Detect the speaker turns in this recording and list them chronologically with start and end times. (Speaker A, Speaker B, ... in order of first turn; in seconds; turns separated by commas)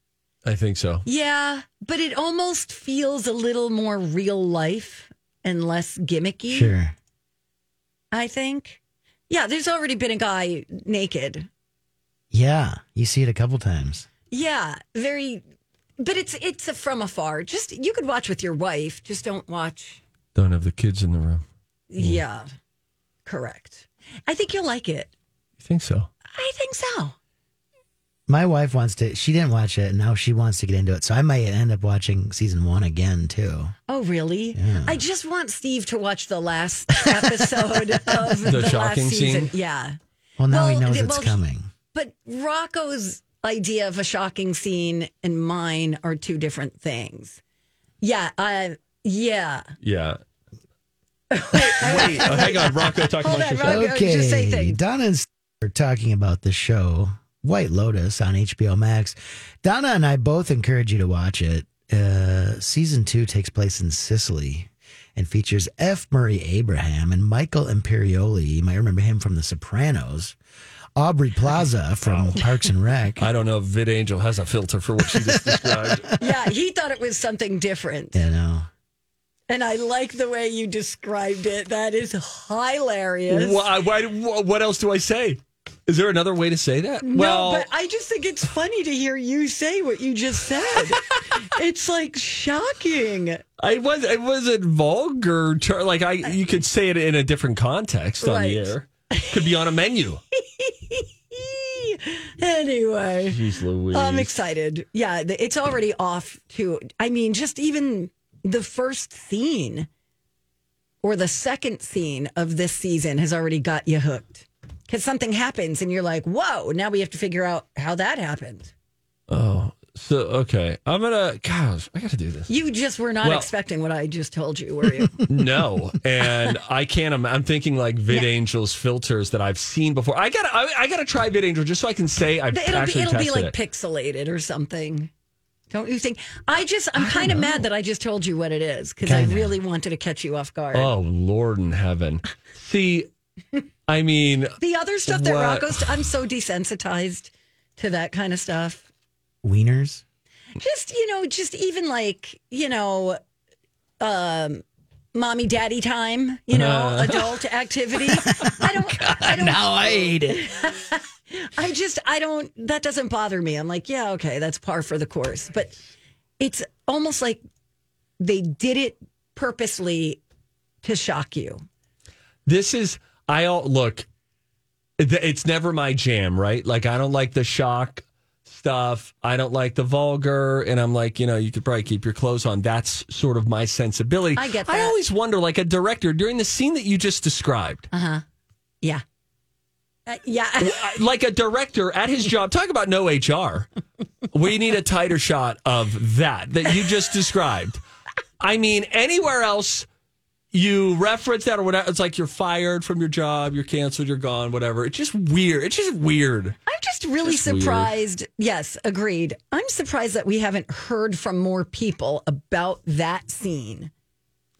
Speaker A: 0.4-1.0, Speaker B: 1.0-6.7, Speaker C: 6.5-6.9, Speaker B: 8.1-11.5, Speaker C: 12.3-14.1, Speaker B: 14.3-15.4, Speaker B: 16.0-20.0, Speaker A: 20.3-21.4, Speaker B: 21.9-22.5, Speaker B: 23.2-25.1, Speaker A: 25.6-26.1, Speaker B: 26.3-27.1, Speaker C: 28.3-33.7, Speaker B: 33.9-40.0, Speaker C: 34.5-35.0, Speaker C: 37.0-38.5, Speaker A: 38.5-39.5, Speaker C: 40.4-41.7, Speaker B: 40.5-41.4, Speaker B: 41.9-47.4, Speaker B: 48.0-49.6, Speaker A: 49.8-50.2, Speaker B: 51.3-54.8, Speaker A: 51.5-53.9, Speaker C: 51.9-52.5, Speaker C: 53.6-70.3, Speaker C: 71.0-73.3, Speaker A: 73.2-76.1, Speaker C: 75.1-76.3, Speaker B: 76.2-78.2, Speaker C: 78.1-78.7, Speaker B: 79.5-83.7, Speaker A: 83.3-87.7, Speaker B: 87.0-93.4, Speaker A: 93.6-100.2, Speaker B: 98.2-99.3, Speaker B: 100.4-103.4, Speaker A: 103.2-104.3, Speaker B: 103.9-109.9, Speaker B: 111.0-118.7, Speaker A: 119.3-122.5, Speaker B: 122.5-125.2, Speaker A: 123.2-123.5, Speaker A: 125.3-133.5, Speaker B: 132.5-135.1, Speaker B: 135.7-140.9, Speaker A: 136.9-137.6, Speaker C: 139.0-139.5, Speaker A: 140.7-143.1, Speaker A: 143.9-146.1, Speaker B: 144.6-148.8, Speaker C: 149.4-150.0, Speaker B: 150.6-153.2, Speaker B: 154.0-165.7, Speaker A: 156.5-157.4, Speaker C: 158.3-160.4, Speaker B: 166.4-167.4, Speaker B: 168.2-170.2, Speaker B: 170.8-171.6, Speaker A: 172.4-174.0, Speaker A: 175.0-187.9, Speaker B: 184.3-185.0, Speaker B: 187.9-188.2, Speaker B: 190.1-190.9, Speaker A: 190.6-193.7, Speaker A: 194.3-197.8, Speaker A: 198.4-199.9, Speaker A: 200.5-206.6, Speaker B: 206.7-213.9, Speaker A: 207.2-207.9